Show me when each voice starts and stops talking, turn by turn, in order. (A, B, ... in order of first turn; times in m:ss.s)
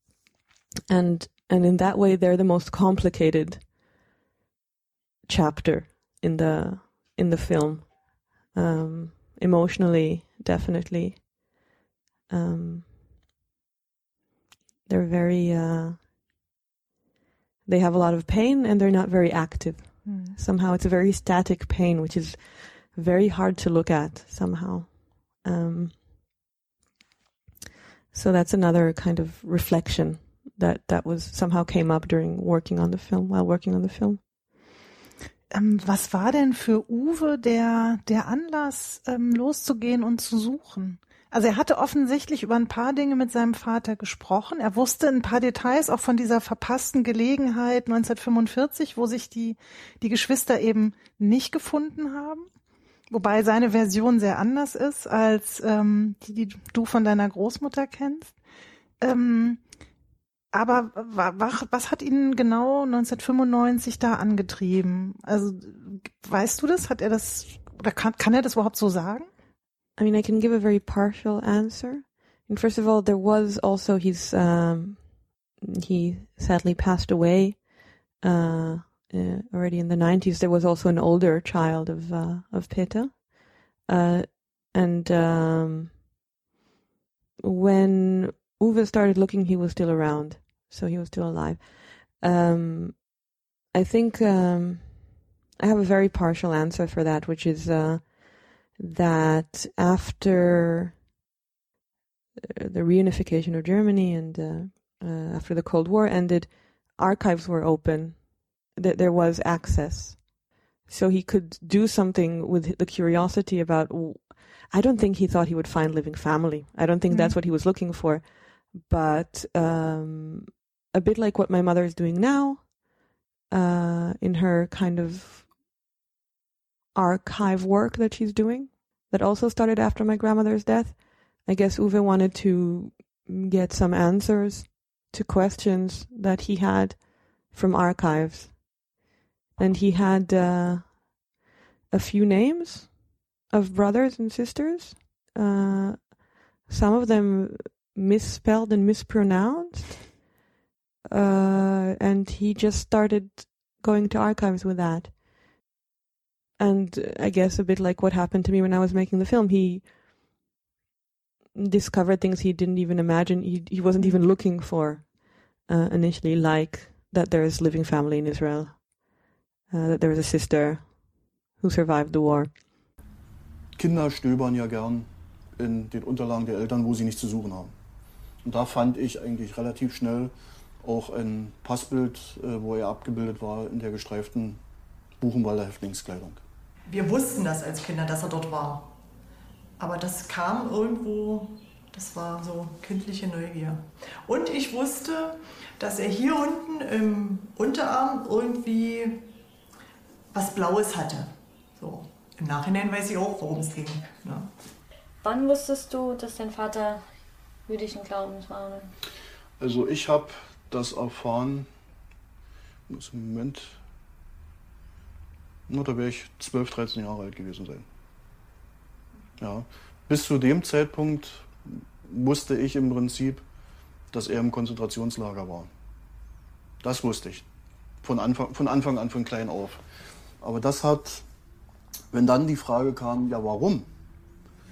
0:00.9-0:03.7 A
0:05.3-0:11.6 A
0:12.3-0:12.9 A
0:14.9-0:16.0 A
0:17.7-0:26.0 A
0:20.0-0:20.4 B
0:28.1-0:34.2 A
0:35.5-0:52.5 B
0:53.1-0:58.4 B
0:59.0-0:59.6 B
1:00.5-1:09.3 B
1:10.0-1:26.0 A
1:27.4-1:33.2 A
1:33.7-1:41.0 A
1:42.4-2:02.9 A
1:57.1-1:57.4 B
2:03.5-2:05.5 A
2:06.9-2:18.9 A
2:19.6-2:21.1 A
2:21.9-2:30.2 A
2:31.1-2:35.6 A
2:36.6-2:39.9 A
2:41.6-2:52.5 A
2:53.8-2:57.7 C
2:58.4-3:04.6 C
3:05.2-3:06.4 C
3:06.9-3:09.0 D
3:09.8-3:19.4 D
3:20.3-3:24.6 D
3:25.2-3:27.1 E
3:27.7-3:28.9 E
3:29.6-3:31.7 C
3:32.9-3:33.8 C
3:35.7-3:37.9 C
3:39.4-3:43.4 C
3:44.1-3:45.7 C
3:46.8-3:47.5 C
3:48.0-3:49.8 C
3:50.4-3:51.3 C
3:52.1-3:53.9 C